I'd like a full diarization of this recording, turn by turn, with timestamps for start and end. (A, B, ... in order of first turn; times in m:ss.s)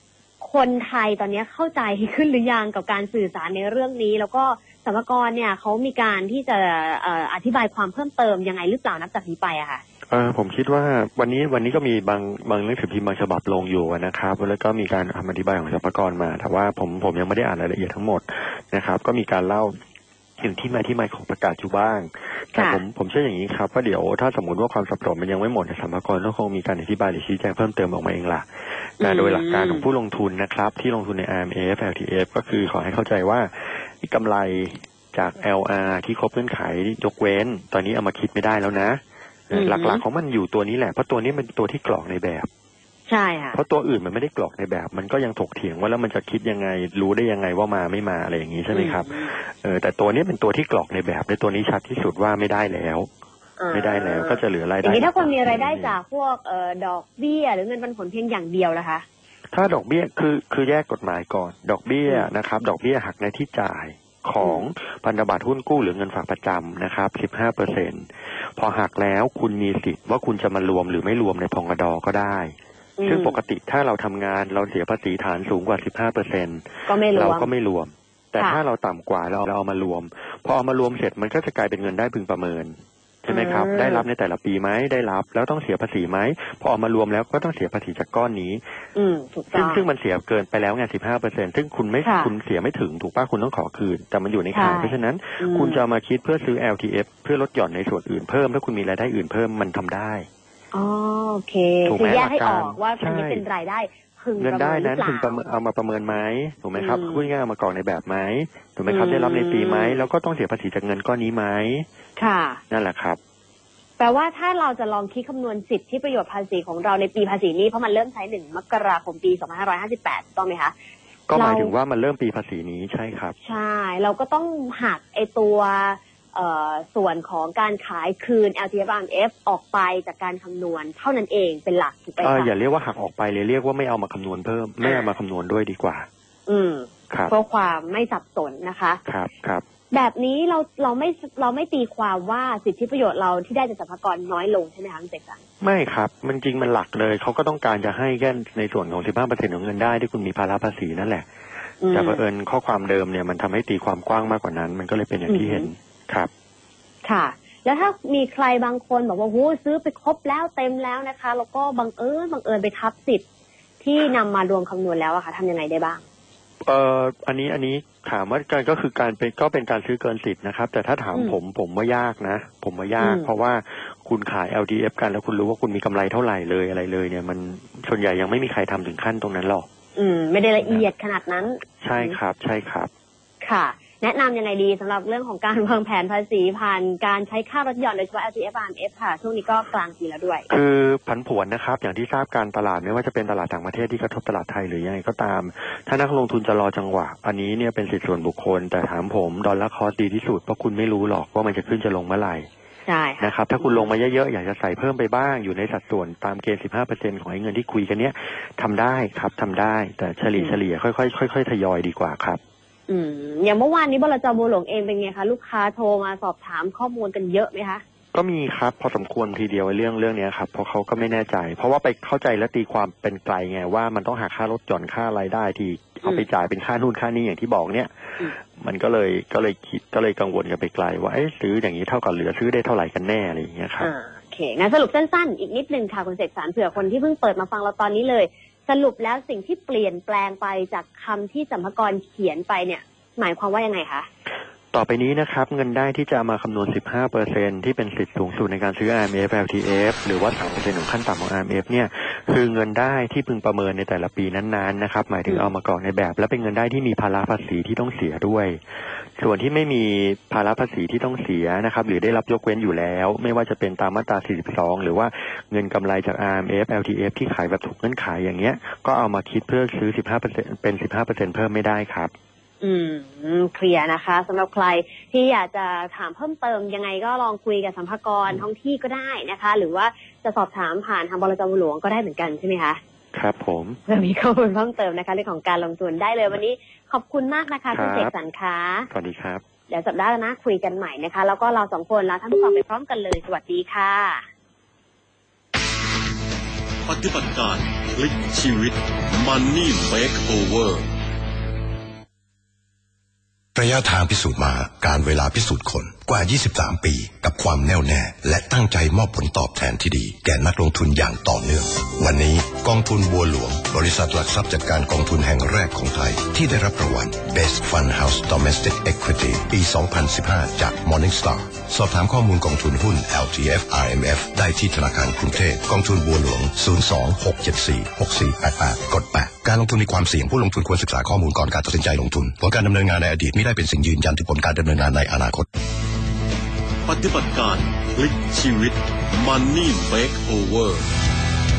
0:00.4-0:09.8 A
0:10.1-0:19.8 B
0:20.4-0:42.5 B
0:22.6-0:22.8 A
0:29.0-0:29.8 A
0:39.5-0:40.0 A
0:43.1-0:43.6 A
0:43.5-0:53.1 B
0:48.7-0:49.3 A
0:53.6-0:59.0 A
0:53.7-0:56.0 B
0:59.5-1:12.6 B
1:13.0-1:13.4 A
1:13.1-1:28.6 B
1:16.9-1:17.5 A
1:23.3-1:24.0 A
1:28.9-1:29.8 A
1:29.5-1:40.3 B
1:32.0-1:32.3 A
1:34.5-1:35.8 A
1:40.7-1:45.4 A
1:41.9-1:43.4 B
1:44.4-1:51.9 B
1:46.8-1:47.3 A
1:48.9-1:50.0 A
1:52.2-1:52.6 A
1:52.7-1:53.2 B
1:54.0-2:00.7 A
2:01.3-2:03.4 B
2:01.3-2:01.7 A
2:03.4-2:12.5 A
2:12.2-2:16.1 B
2:16.5-2:19.0 A
2:19.1-2:19.6 B
2:19.9-2:25.4 A
2:25.6-2:31.3 B
2:31.8-2:32.2 A
2:31.9-2:36.3 B
2:35.3-2:35.7 A
2:37.0-2:43.2 A
2:43.8-2:46.0 A
2:46.6-2:59.7 B
2:53.0-2:53.3 A
3:00.0-3:02.2 A
3:01.8-3:02.9 B
3:03.4-3:10.5 A
3:10.5-3:22.5 B
3:22.9-3:23.9 A
3:23.2-3:32.4 B
3:32.9-3:37.8 A
3:38.1-3:53.9 B
3:53.8-4:04.1 A
4:04.7-4:18.6 B
4:19.2-4:32.1 B
4:32.6-4:42.8 A
4:43.1-4:43.8 B
4:43.9-4:48.9 A
4:47.7-4:48.1 B
4:48.9-4:49.4 B
4:49.7-4:54.2 A
4:56.9-5:00.9 C
5:03.6-5:35.5 D
5:36.9-5:40.9 C